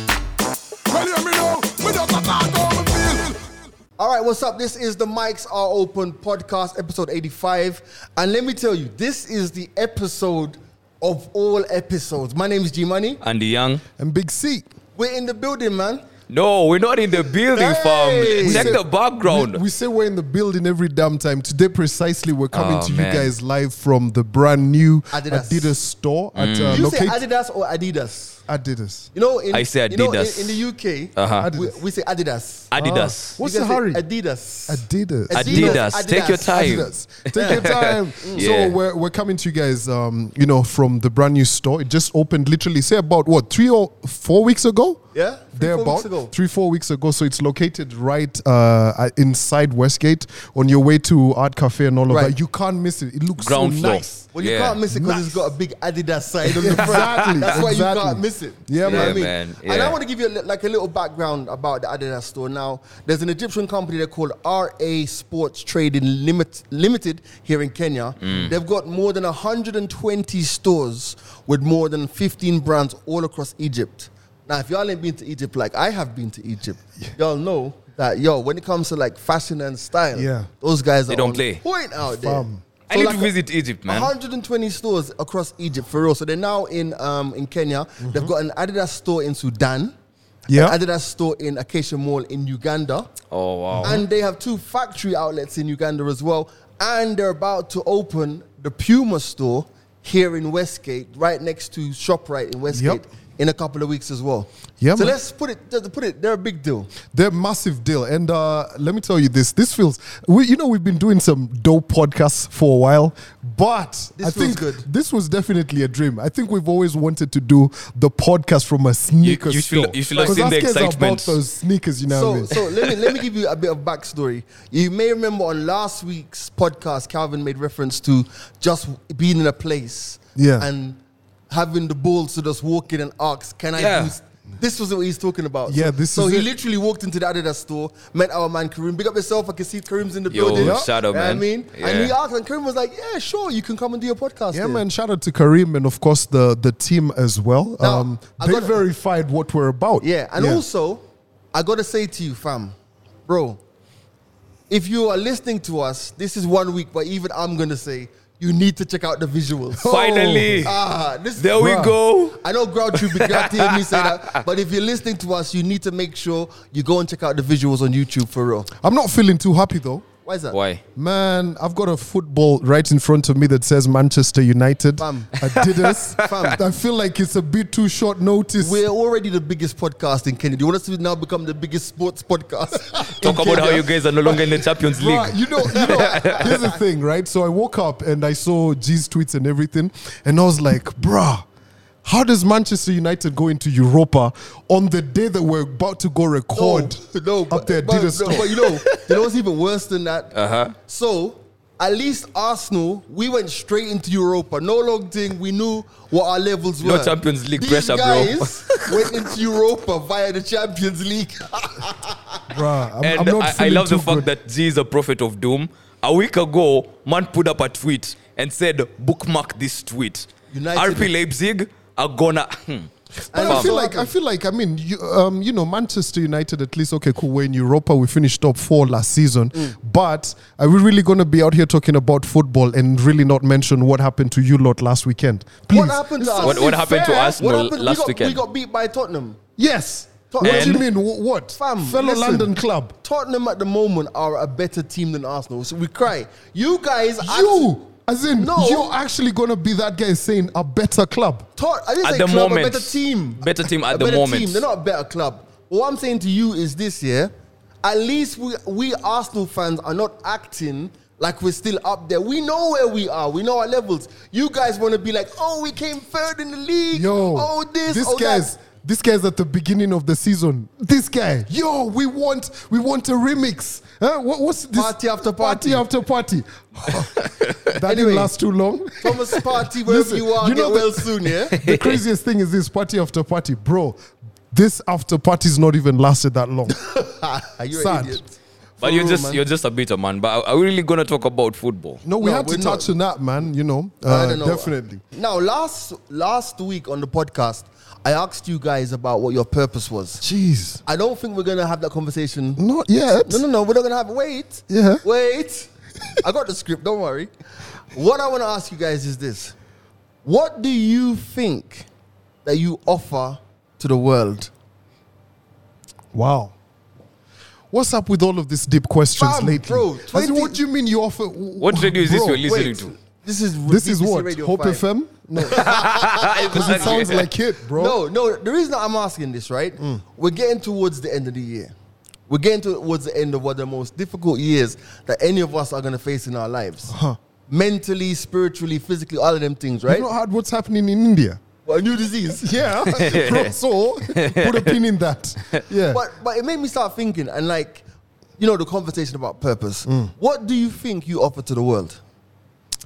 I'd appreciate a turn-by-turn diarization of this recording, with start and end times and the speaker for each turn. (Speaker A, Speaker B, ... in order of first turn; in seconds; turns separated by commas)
Speaker A: 0.9-3.5, Speaker B: 4.0-13.2, Speaker C: 13.2-13.8, Speaker D: 14.0-14.7, Speaker B: 14.9-16.0, Speaker C: 16.3-19.6, Speaker B: 17.5-18.7, Speaker D: 18.4-27.2, Speaker C: 22.5-23.3, Speaker B: 25.1-25.8, Speaker C: 26.4-26.9, Speaker B: 26.7-28.4, Speaker D: 28.5-29.1, Speaker B: 29.1-32.7, Speaker C: 29.5-30.6, Speaker C: 31.1-31.5, Speaker D: 31.4-31.8, Speaker C: 32.7-33.4, Speaker D: 32.8-34.0, Speaker B: 33.4-36.8, Speaker D: 34.7-35.8, Speaker C: 35.3-38.8, Speaker D: 36.5-45.0, Speaker B: 37.3-37.7, Speaker B: 38.2-38.4, Speaker B: 45.1-46.3, Speaker D: 45.5-54.1, Speaker B: 52.1-52.3, Speaker C: 53.4-54.8, Speaker B: 54.0-83.3, Speaker D: 54.9-55.3, Speaker D: 56.6-59.3, Speaker C: 56.8-57.4, Speaker C: 58.8-60.0, Speaker C: 68.2-68.5, Speaker D: 80.1-80.5, Speaker C: 81.1-81.6, Speaker D: 82.0-82.6, Speaker C: 82.9-84.1, Speaker B: 83.8-89.9, Speaker D: 88.0-88.3, Speaker D: 90.5-90.7, Speaker B: 90.5-93.1, Speaker C: 93.3-94.0, Speaker D: 93.7-94.0, Speaker B: 93.8-106.9, Speaker D: 102.7-103.0, Speaker D: 104.8-105.2, Speaker D: 107.1-122.6, Speaker B: 114.2-114.8, Speaker C: 119.2-121.4, Speaker B: 120.1-120.5, Speaker B: 122.1-131.0, Speaker D: 130.3-130.7, Speaker B: 131.5-144.8, Speaker C: 133.8-134.1, Speaker D: 135.7-136.5, Speaker C: 140.3-142.1, Speaker D: 140.5-140.9, Speaker D: 144.5-150.6, Speaker B: 147.8-148.8, Speaker B: 150.0-151.0, Speaker B: 151.5-152.7, Speaker B: 153.3-153.6, Speaker B: 154.7-159.9, Speaker D: 159.8-160.7, Speaker C: 159.8-160.7, Speaker B: 160.6-161.5, Speaker C: 161.4-162.4, Speaker D: 161.6-162.0, Speaker B: 162.3-168.7, Speaker C: 162.9-164.1, Speaker D: 168.8-170.1, Speaker B: 170.2-170.6, Speaker C: 170.5-170.8, Speaker D: 170.9-178.8, Speaker B: 175.0-175.3, Speaker C: 175.4-176.2, Speaker B: 176.2-176.6, Speaker B: 178.6-184.6, Speaker C: 183.2-186.5, Speaker D: 183.2-183.7, Speaker D: 184.9-191.4, Speaker B: 185.6-186.7, Speaker D: 192.0-198.6, Speaker B: 196.5-212.4, Speaker C: 200.3-200.7, Speaker C: 206.8-209.2, Speaker D: 212.5-214.3, Speaker C: 213.0-222.9, Speaker B: 220.5-221.1, Speaker B: 223.3-224.1, Speaker D: 223.3-236.8, Speaker B: 235.7-239.4, Speaker C: 236.4-238.4, Speaker D: 239.6-242.9, Speaker B: 240.3-240.8, Speaker C: 240.4-240.8, Speaker B: 241.6-247.7, Speaker D: 247.2-251.5, Speaker B: 248.3-248.9, Speaker B: 251.6-257.3, Speaker C: 252.0-254.6, Speaker B: 257.8-268.5, Speaker D: 266.9-286.8, Speaker B: 274.7-275.8, Speaker C: 277.2-277.6, Speaker B: 277.9-278.3, Speaker B: 279.0-281.6, Speaker C: 281.6-282.0, Speaker B: 286.8-289.4, Speaker D: 287.7-288.2, Speaker C: 288.8-292.0, Speaker D: 292.0-295.0, Speaker B: 292.2-292.9, Speaker B: 294.1-300.2, Speaker D: 300.2-300.8, Speaker B: 300.8-302.6, Speaker D: 302.6-303.4, Speaker B: 303.2-307.3, Speaker D: 304.7-305.0, Speaker B: 307.9-309.5, Speaker B: 310.2-311.9, Speaker B: 312.4-314.5, Speaker D: 316.1-316.5, Speaker D: 317.7-322.6, Speaker B: 319.2-320.6, Speaker C: 321.6-322.9, Speaker B: 322.4-324.8, Speaker D: 323.7-328.0, Speaker B: 325.4-331.7, Speaker C: 325.6-327.2, Speaker B: 332.3-336.9, Speaker D: 336.9-337.2, Speaker B: 337.5-340.1, Speaker D: 339.9-341.4, Speaker B: 341.6-342.6, Speaker D: 342.4-346.0, Speaker C: 342.9-343.5, Speaker C: 344.1-344.8, Speaker B: 345.9-347.8, Speaker B: 348.4-352.0